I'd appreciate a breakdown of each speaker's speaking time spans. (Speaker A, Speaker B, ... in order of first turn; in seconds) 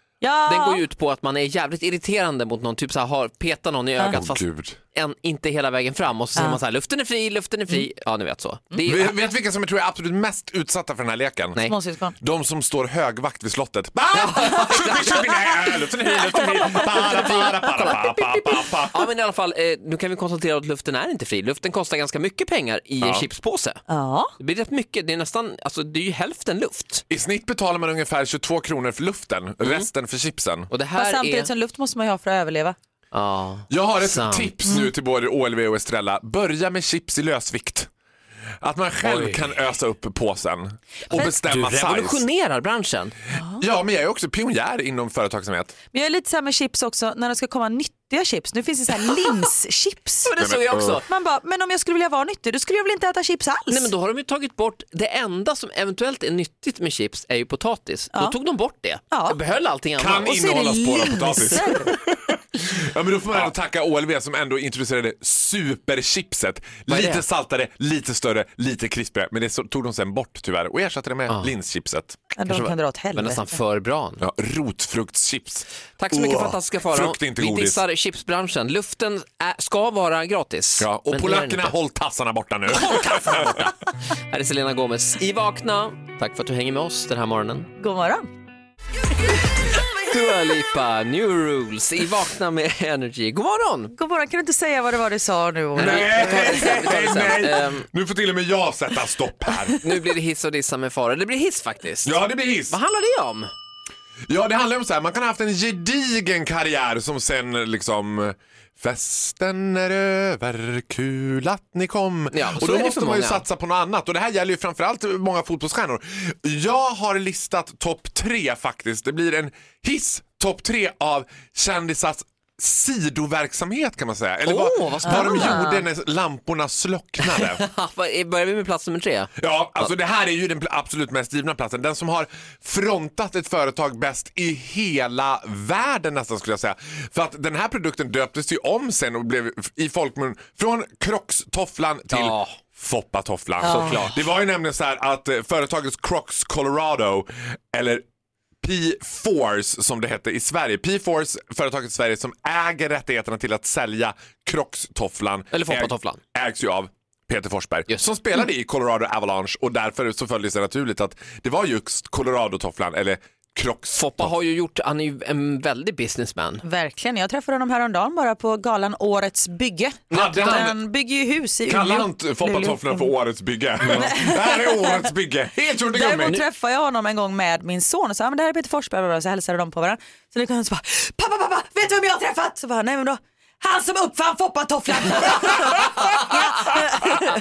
Speaker A: 0.2-0.8, 11.7-12.1, 23.9-24.3, 30.9-32.8, 43.3-43.6, 45.9-50.3, 51.0-53.9, 59.1-59.4, 60.3-61.9, 72.4-73.4, 87.8-88.3, 93.9-96.4, 166.6-173.0, 173.9-174.8, 175.9-187.2
Speaker B: 0.5-9.2, 14.1-23.8, 24.4-27.0, 29.6-29.9, 30.7-31.5, 33.1-34.5, 39.0-39.5, 41.1-43.1, 50.2-51.1, 53.7-60.4, 66.9-67.2, 72.5-74.2, 76.0-81.7, 83.1-83.7, 84.3-87.7, 89.8-93.9, 95.7-97.9, 99.8-103.5, 112.3-113.4, 124.4-125.8, 127.2-129.9, 142.1-142.6, 143.6-144.2, 155.5-156.2, 163.9-166.6, 170.1-170.4
Speaker C: 4.1-4.8, 8.8-11.7, 12.2-19.1, 23.0-23.3, 27.1-30.7, 33.7-37.9, 38.6-42.2, 43.6-45.7, 50.4-51.0, 60.0-72.3, 74.2-77.8, 80.8-83.7, 95.8-99.9, 102.0-102.8, 104.3-127.6, 129.4-148.0, 148.6-164.3, 170.1-170.8, 171.7-176.4